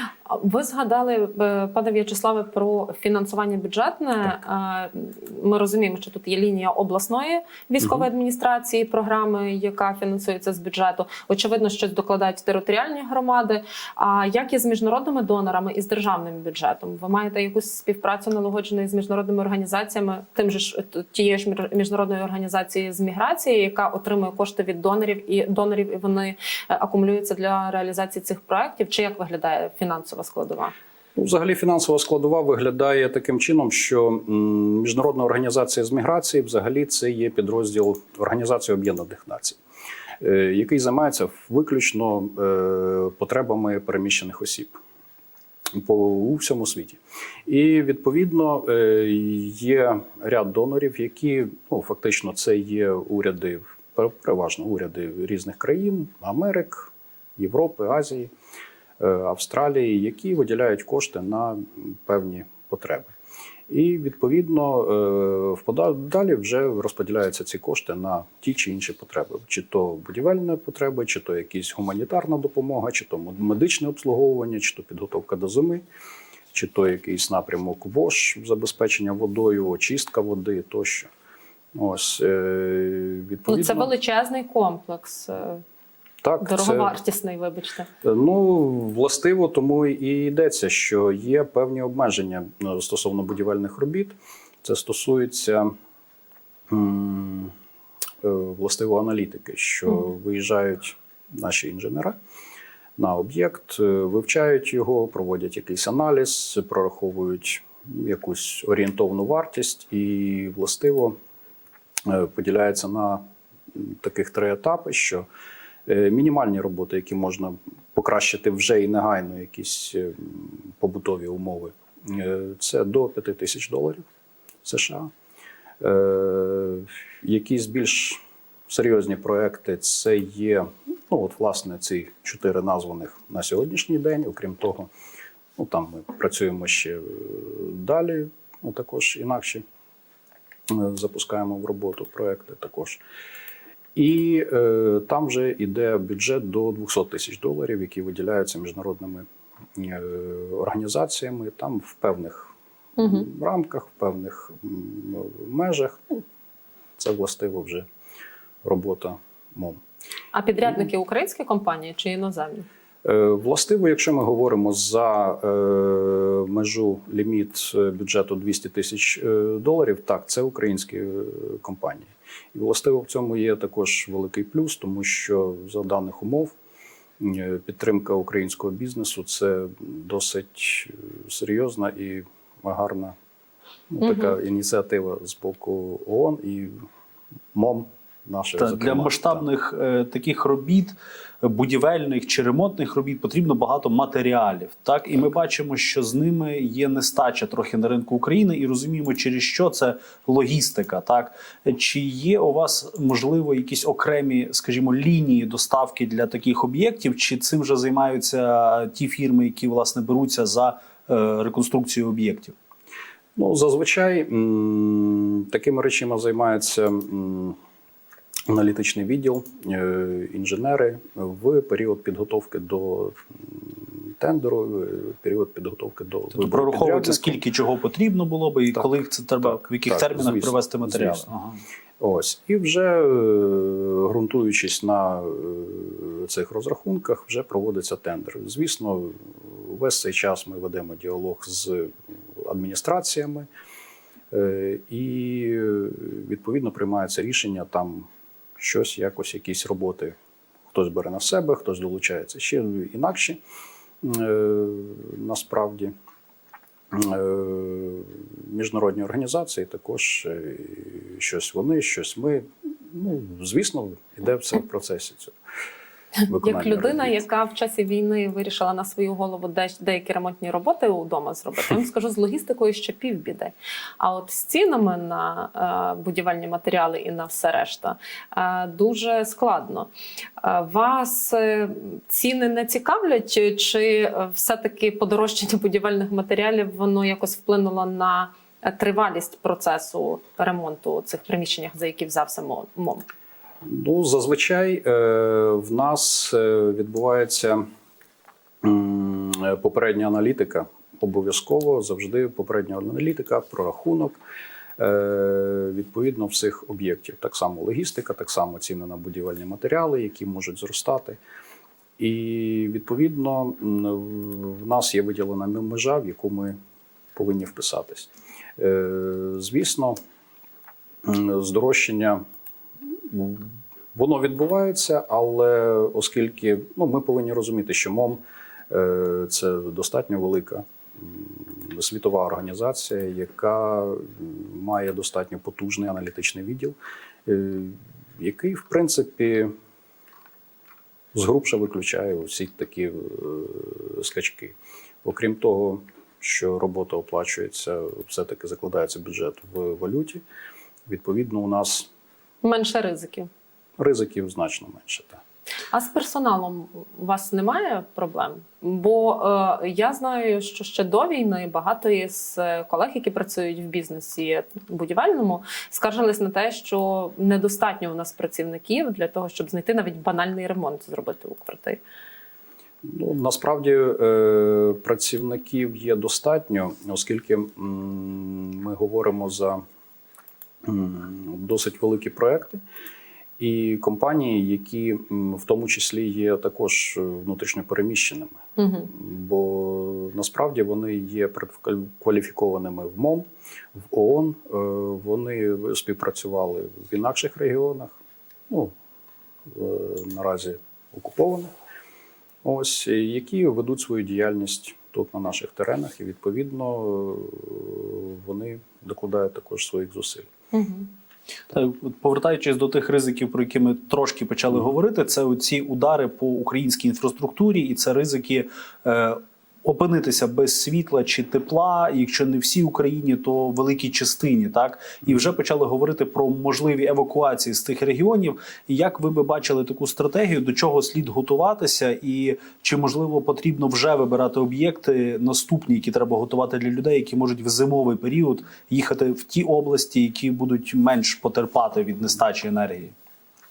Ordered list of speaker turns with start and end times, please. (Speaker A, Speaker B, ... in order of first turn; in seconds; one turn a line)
Speaker A: 0.2-30.7
Speaker B: 7.8-8.1
Speaker B: 31.1-39.6
Speaker B: 40.2-44.8
Speaker B: 45.7-58.3
Speaker B: 59.0-63.1
Speaker B: 63.7-75.8
Speaker B: 76.5-81.1
Speaker B: 81.7-83.9
Speaker A: 83.5-85.6
Speaker B: 86.2-86.9
Speaker A: 86.4-87.9
Speaker B: 88.0-95.7
Speaker B: 96.7-97.5
Speaker B: 98.2-102.1
Speaker B: 103.0-111.2
Speaker B: 112.0-115.2
Speaker B: 115.8-124.0
Speaker B: 124.6-125.1
Speaker B: 125.8-134.9
Speaker B: 135.6-139.6
Speaker B: 140.7-143.0
Speaker B: 143.9-149.2
Speaker B: 149.8-156.2
Speaker A: 153.0-153.2
Speaker B: 157.0-157.8
Speaker B: 158.6-159.8
Speaker A: 160.3-162.7
Speaker B: 163.0-176.5
Speaker B: 177.2-183.1
Speaker B: 183.9-186.7
Speaker A: 184.0-184.3
Speaker B: 187.5-189.4
Speaker C: 188.6-212.5
Speaker B: 213.3-217.6
Speaker B: 218.5-227.4
Speaker C: 226.3-231.6
Speaker B: 229.4-231.3
Speaker B: 232.0-243.5
Speaker B: 244.3-250.1
Speaker B: 250.7-253.4
Speaker B: 254.0-255.9
Speaker B: 256.9-265.3
Speaker B: 266.3-267.2
Speaker A: 266.4-293.0
Speaker B: 293.6-297.6
Speaker B: 298.6-304.2
Speaker B: 304.8-311.2
Speaker B: 312.0-316.6
Speaker B: 317.1-320.0
Speaker B: 321.0-322.2
Speaker B: 323.1-339.5
Speaker B: 341.1-350.2
Speaker B: 350.9-351.9
Speaker A: 352.4-353.3
Speaker B: 353.8-355.2
Speaker A: 355.7-371.8
Speaker B: 372.8-379.6
Speaker B: 380.6-382.6
Speaker B: 383.4-393.2
Speaker A: 388.6-388.9
Speaker B: 393.9-398.0
Speaker B: 399.5-401.5
Speaker B: 402.4-410.3
Speaker A: 410.5-410.9
Speaker C: 411.5-442.9